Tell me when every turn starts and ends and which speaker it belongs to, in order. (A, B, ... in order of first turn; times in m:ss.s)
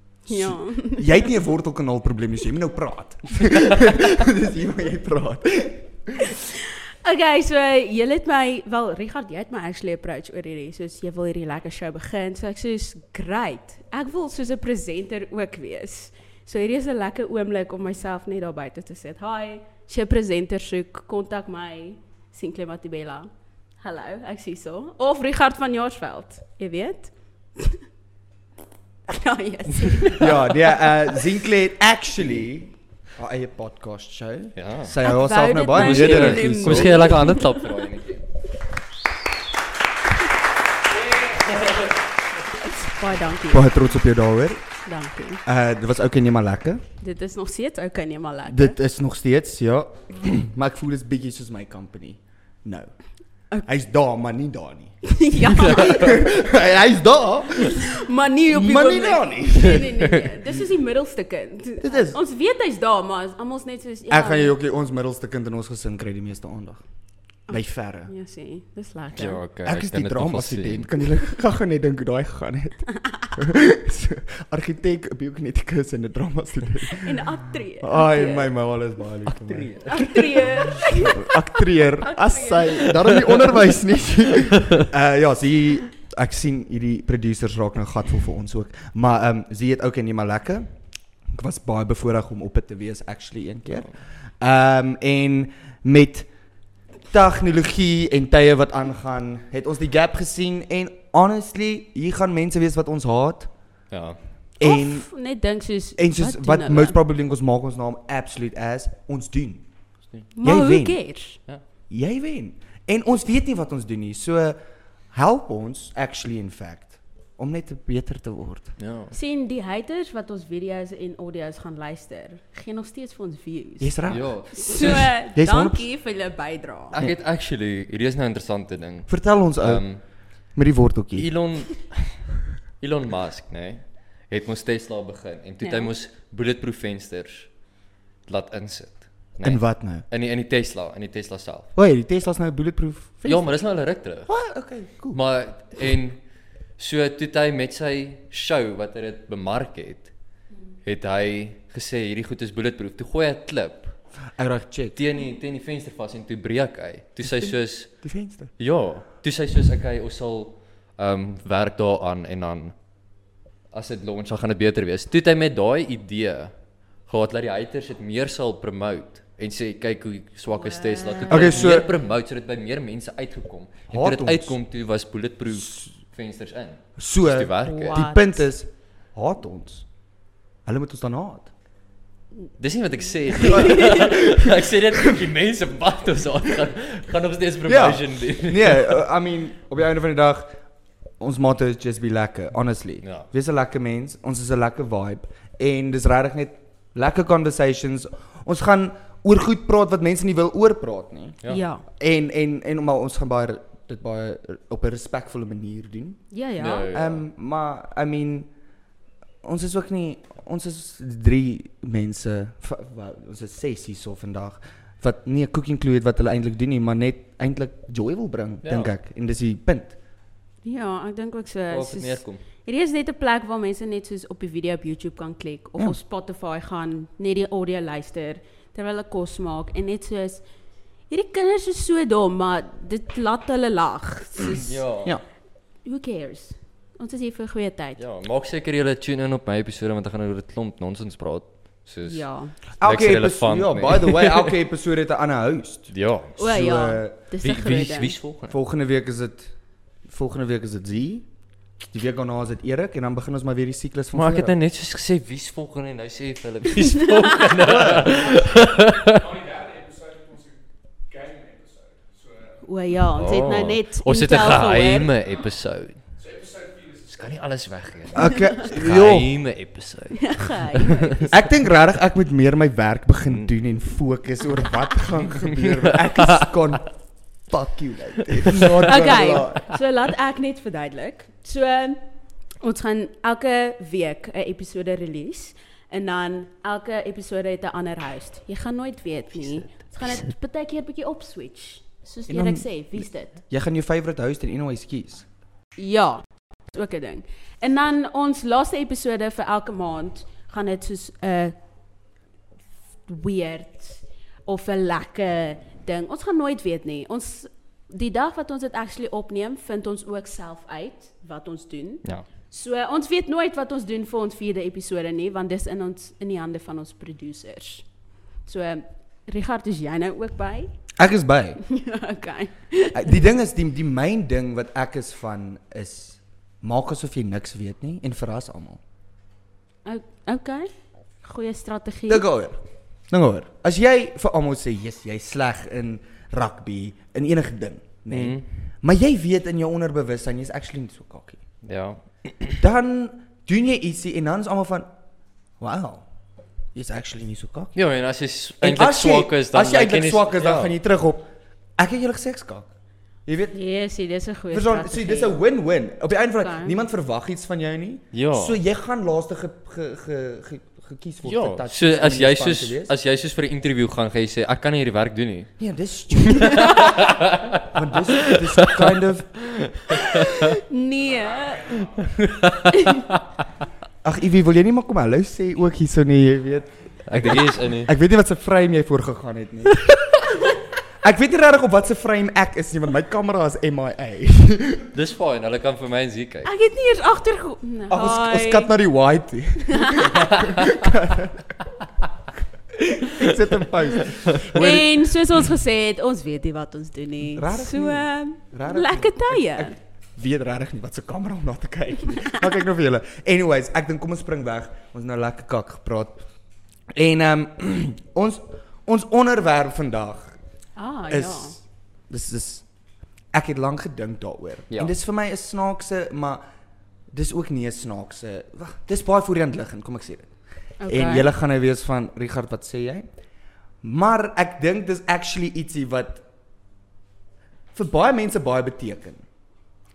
0:00.3-0:01.3 A
0:00.3-0:06.3 B
0:06.4-0:23.3 A
0:23.8-0:27.8 A
0:29.1-0:31.2 A
0:30.1-0:37.2 B
0:34.6-0:35.0 C
0:35.0-0:37.7 A
0:35.7-0:38.2 C
0:41.3-0:41.8 C
0:42.5-0:43.8 A
0:43.5-0:44.6 B
0:44.8-0:45.4 A
0:45.4-0:46.8 B
0:47.0-0:48.8 A
0:48.5-0:52.9 B
0:53.6-0:57.9 B
0:55.0-0:56.3 A
0:55.6-0:56.1 C
0:57.7-1:04.6 A
0:58.5-0:59.9 B
1:01.8-1:02.2 B
1:04.1-1:06.8 B
1:07.5-1:08.1 B
1:07.5-1:09.4 A
1:09.2-1:10.9 C
1:09.6-1:17.2 B
1:16.9-1:18.5 A
1:17.8-1:30.7 B
1:19.3-1:20.2 C
1:19.9-1:22.9 A
1:22.7-1:24.9 C
1:31.3-1:36.3 B
1:37.1-1:43.5 B
1:43.9-1:44.2 C
1:44.6-1:45.1 B
1:44.6-1:47.0 A
1:46.0-1:49.6 B
1:50.4-1:51.4 A
1:50.4-1:51.0 B
1:51.9-1:54.6 B
1:55.1-1:58.8 B
1:58.8-1:59.2 C
1:59.1-2:04.0 A
2:03.8-2:05.9 B
2:04.1-2:05.1 C
2:04.5-2:07.0 A
2:06.9-2:10.0 C
2:09.1-2:09.9 B
2:10.6-2:11.3 B
2:11.2-2:12.2 C
2:12.8-2:17.5 C
2:15.6-2:15.9 A
2:18.3-2:21.7 C
2:19.4-2:20.1 B
2:21.8-2:23.6 B
2:23.2-2:24.3 C
2:24.3-2:25.2 B
2:25.1-2:26.2 C
2:26.8-2:30.1 C
2:30.8-2:34.0 C
2:34.4-2:35.0 B
2:35.0-2:42.8 C
2:38.0-2:38.5 B
2:43.7-2:46.5 C
2:47.1-2:58.0 C
2:50.6-2:51.7 A
2:51.3-2:51.9 B
2:53.9-2:54.6 B
2:57.0-2:59.9 B
2:57.6-2:58.4 A
3:00.7-3:01.5 B
3:02.6-3:09.0 C
3:03.4-3:04.5 B
3:03.5-3:04.0 A
3:07.6-3:10.6 B
3:11.2-3:21.4 B
3:13.0-3:13.3 C
3:21.5-3:21.8 A
3:22.0-3:26.2 B
3:26.3-3:26.9 A
3:26.6-3:27.2 C
3:26.9-3:28.5 B
3:29.4-3:40.0 B
3:38.6-3:38.9 C
3:40.6-3:50.4 A
3:41.7-3:42.4 C
3:51.1-3:54.7 A
3:54.6-3:55.2 C
3:55.8-3:58.0 A
3:58.0-4:02.2 C
4:02.0-4:02.5 A
4:02.8-4:04.5 C
4:02.8-4:07.2 B
4:05.9-4:06.4 C
4:06.4-4:08.1 A
4:07.4-4:08.6 C
4:08.5-4:09.5 B
4:10.1-4:11.3 B
4:11.9-4:14.5 B
4:14.1-4:19.5 C
4:17.7-4:18.1 B
4:22.6-4:25.1 A
4:23.2-4:26.0 C
4:26.6-4:31.4 C
4:28.1-4:29.3 B
4:30.2-4:31.2 A
4:31.3-4:36.9 B
4:35.3-4:36.6 C
4:37.5-4:39.7 B
4:38.3-4:38.8 C
4:38.8-4:42.0 A
4:42.6-4:53.4 A
4:52.3-4:55.3 B
4:55.8-5:01.6 A
5:03.1-5:17.9 A
5:18.5-5:20.7 A
5:21.0-5:21.6 B
5:21.6-5:23.2 A
5:22.9-5:28.8 B
5:29.8-5:30.7 A
5:31.2-5:32.2 A
5:32.1-5:32.6 B
5:33.1-5:41.4 B
5:38.1-5:38.5 C
5:41.6-5:42.6 C
5:42.6-5:44.9 B
5:45.6-5:46.0 B
5:46.8-5:47.7 B
5:47.8-5:50.8 C
5:48.6-5:52.7 B
5:53.3-5:53.6 B
5:53.5-5:55.4 A
5:54.5-6:02.9 B
5:56.4-5:56.8 A
5:58.1-5:58.6 C
6:01.2-6:05.5 C
6:05.6-6:09.4 B
6:06.2-6:10.5 C
6:10.0-6:11.9 A
6:12.0-6:13.2 C
6:12.7-6:13.0 A
6:14.0-6:20.2 B
6:17.1-6:17.9 C
6:21.0-6:24.9 B
6:24.9-6:26.5 C
6:26.4-6:28.7 A
6:27.9-6:31.5 B
6:29.6-6:30.5 A
6:32.7-6:34.9 B
6:34.0-6:34.7 C
6:34.5-6:39.8 A
6:37.3-6:46.2 B
6:47.0-6:50.4 B
6:50.8-6:51.6 A
6:51.1-6:52.6 B
6:53.3-6:56.4 B
6:57.1-7:00.3 B
7:00.8-7:01.3 A
7:00.9-7:03.1 B
7:03.8-7:06.2 B
7:07.7-7:09.2 B